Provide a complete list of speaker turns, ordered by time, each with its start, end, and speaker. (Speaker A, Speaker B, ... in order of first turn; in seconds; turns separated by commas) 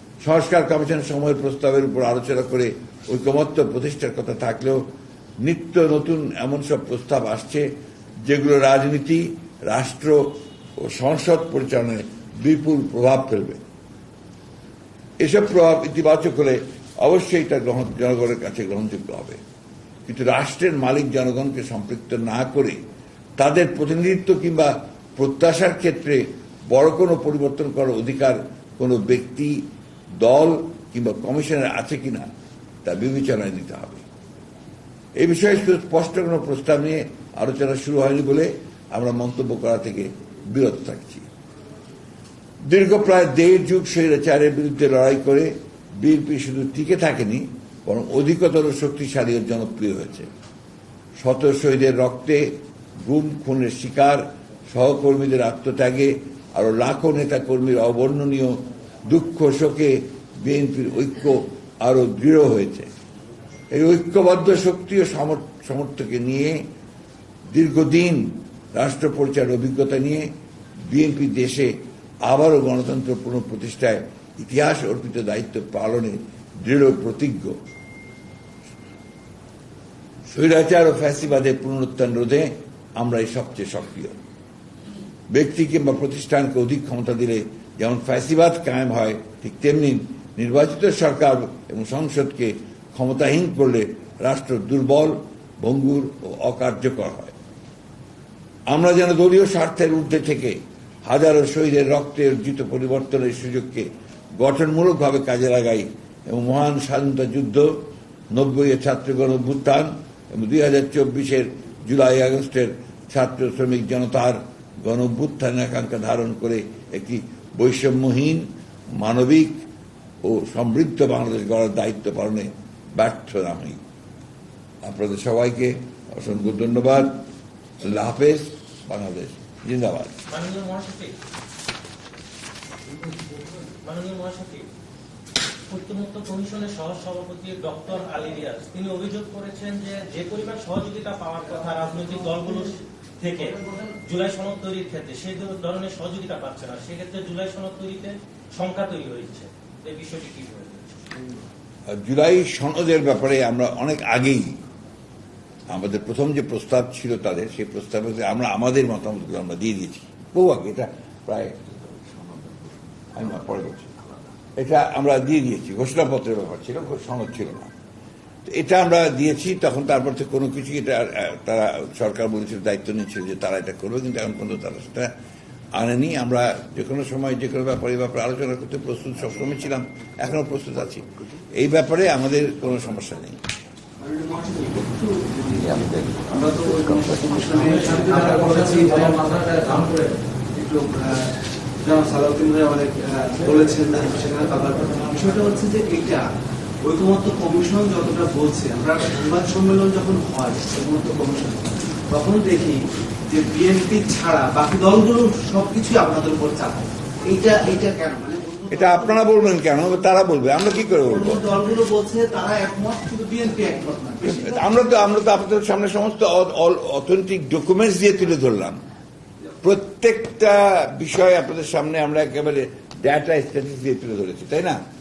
Speaker A: 0.2-13.6, Speaker A: 15.2-19.4, Speaker A: 20.1-22.8, Speaker A: 23.4-29.7, Speaker A: 30.2-32.3, Speaker A: 32.8-34.0, Speaker A: 35.2-41.3, Speaker A: 42.6-50.3, Speaker A: 51.2-62.9, Speaker A: 63.7-66.6, Speaker A: 67.5-70.3, Speaker A: 70.9-77.6, Speaker A: 80.3-84.2, Speaker A: 85.3-97.3, Speaker A: 98.7-119.7, Speaker A: 120.2-123.8, Speaker A: 124.8-127.2, Speaker A: 127.8-130.1, Speaker B: 130.3-131.2, Speaker B: 133.7-134.7, Speaker B: 135.7-151.1, Speaker A: 151.9-154.6, Speaker A: 155.7-167.7, Speaker A: 168.4-175.1, Speaker A: 175.7-183.4, Speaker C: 184.0-189.4, Speaker A: 185.6-187.7, Speaker B: 187.6-190.2, Speaker C: 190.5-196.2, Speaker C: 196.8-209.2, Speaker A: 208.7-211.4, Speaker C: 211.0-214.7, Speaker A: 214.2-218.8, Speaker A: 219.6-224.8